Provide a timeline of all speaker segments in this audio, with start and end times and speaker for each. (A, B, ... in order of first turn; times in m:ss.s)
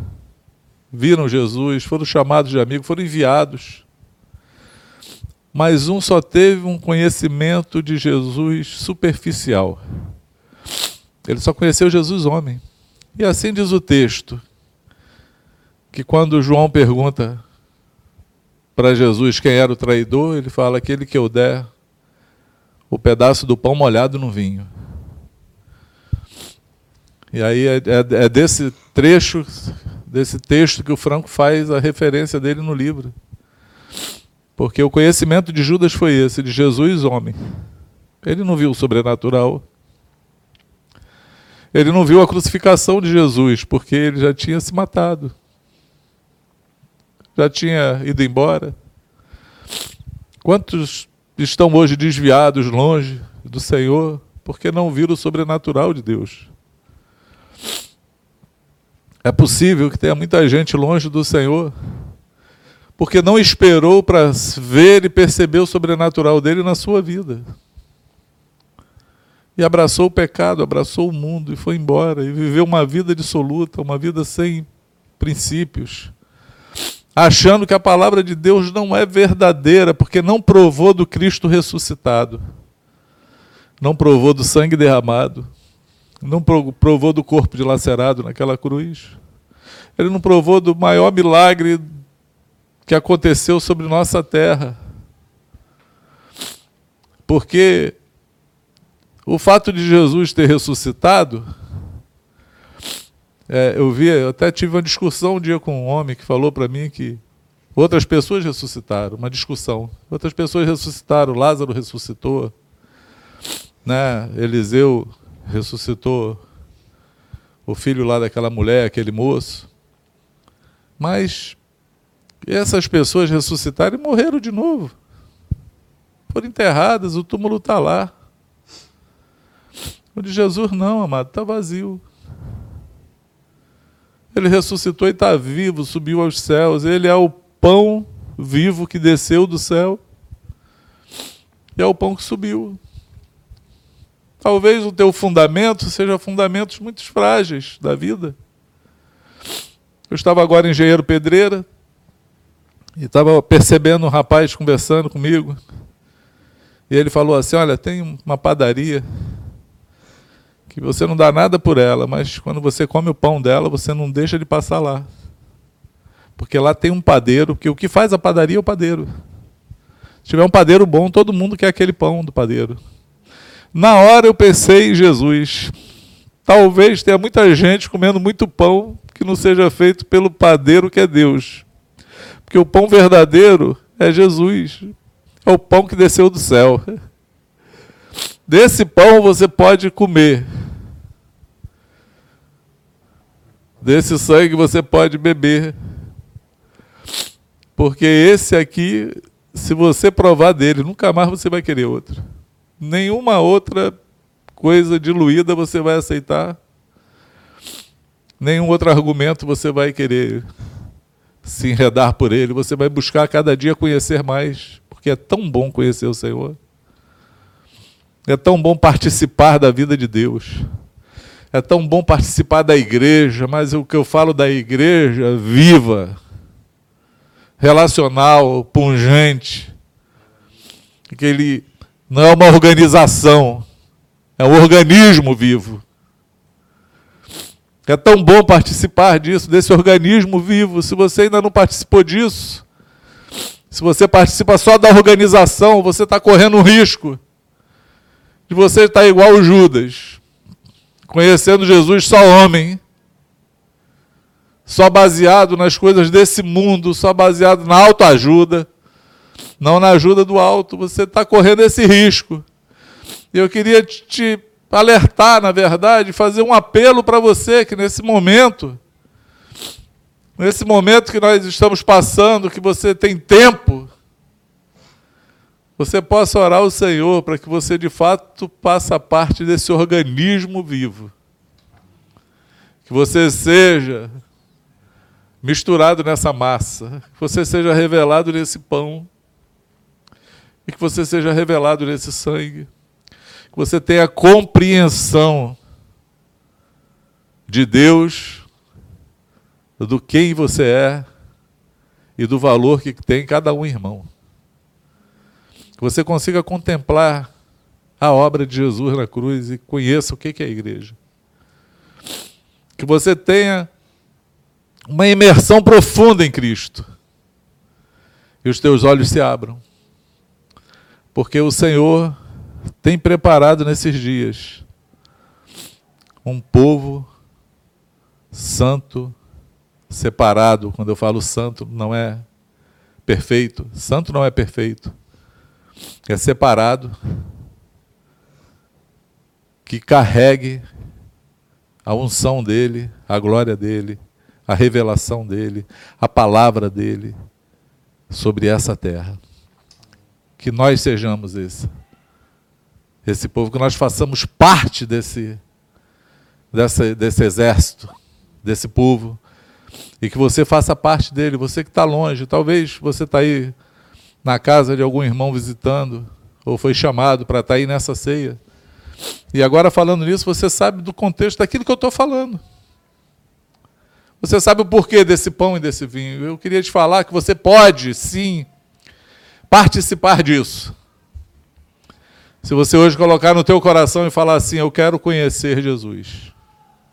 0:00.9-0:03.8 A
0:05.5-0:09.8 A
0:11.2-0:12.6 A
0:13.1-0:14.4 A
0:15.9-0:17.4 A
0:18.8-0:21.7 A
0:22.9-0:24.7 A
0:27.3-0:33.1 A
0:34.6-0:37.4 A
0:38.2-0:39.6 A
0:41.7-0:45.3 A
0:47.4-0:48.8 A
0:50.4-0:56.5 A
0:59.2-1:01.7 A
1:03.0-1:07.5 A
1:09.6-1:14.7 A
1:15.2-1:16.1 A
1:17.2-1:22.4 A
1:23.8-1:25.5 A
1:26.2-1:29.2 A
1:30.0-1:32.0 A
1:32.9-1:34.8 A
1:37.3-1:38.0 A
1:39.2-1:41.5 A
1:43.5-1:47.2 A
1:47.7-1:52.5 A
1:53.8-1:56.4 A
1:57.6-1:59.7 A
2:01.0-2:01.6 A
2:02.4-2:04.9 A
2:06.3-2:08.1 A
2:10.1-2:12.0 A
2:14.3-2:20.0 A
2:21.8-2:22.8 A
2:24.4-2:28.4 A
2:30.1-2:31.6 A
2:33.0-2:35.6 A
2:36.9-2:39.0 A
2:40.7-2:45.1 A
2:46.4-2:49.1 A
2:50.2-2:52.8 A
2:53.7-2:55.7 A
2:56.4-3:01.6 A
3:02.5-3:04.9 A
3:05.4-3:07.0 A
3:08.5-3:10.5 A
3:13.8-3:15.7 A
3:17.8-3:22.2 A
3:22.8-3:24.0 A
3:24.6-3:26.6 A
3:28.4-3:30.5 A
3:31.4-3:36.6 A
3:38.3-3:40.6 A
3:41.5-3:46.2 A
3:47.6-3:49.7 A
3:51.1-3:53.6 A
3:54.4-3:55.8 A
3:57.9-4:02.6 A
4:03.7-4:07.2 A
4:08.5-4:10.2 A
4:11.1-4:12.8 A
4:14.7-4:18.7 A
4:19.6-4:22.4 A
4:23.3-4:28.8 A
4:30.4-4:33.9 A
4:35.8-4:41.1 A
4:42.9-4:44.2 A
4:45.4-4:49.1 A
4:50.6-4:52.7 A
4:53.5-4:55.6 A
4:57.5-4:58.4 A
4:59.8-5:01.1 A
5:02.2-5:04.1 A
5:05.8-5:07.3 A
5:08.0-5:11.0 A
5:12.8-5:13.7 A
5:14.9-5:16.9 A
5:18.4-5:19.6 A
5:21.1-5:22.2 A
5:22.8-5:24.6 A
5:26.2-5:27.1 A
5:28.3-5:29.1 A
5:29.9-5:32.2 A
5:33.0-5:34.9 A
5:36.1-5:36.9 A
5:39.6-5:40.6 A
5:41.8-5:47.2 A
5:48.1-5:49.2 A
5:50.4-5:51.7 A
5:53.0-5:55.4 A
5:56.5-5:57.9 A
5:58.4-5:59.2 A
6:00.0-6:03.5 A
6:04.2-6:08.4 A
6:09.3-6:12.4 A
6:14.2-6:18.5 A
6:19.5-6:20.7 A
6:22.4-6:26.3 A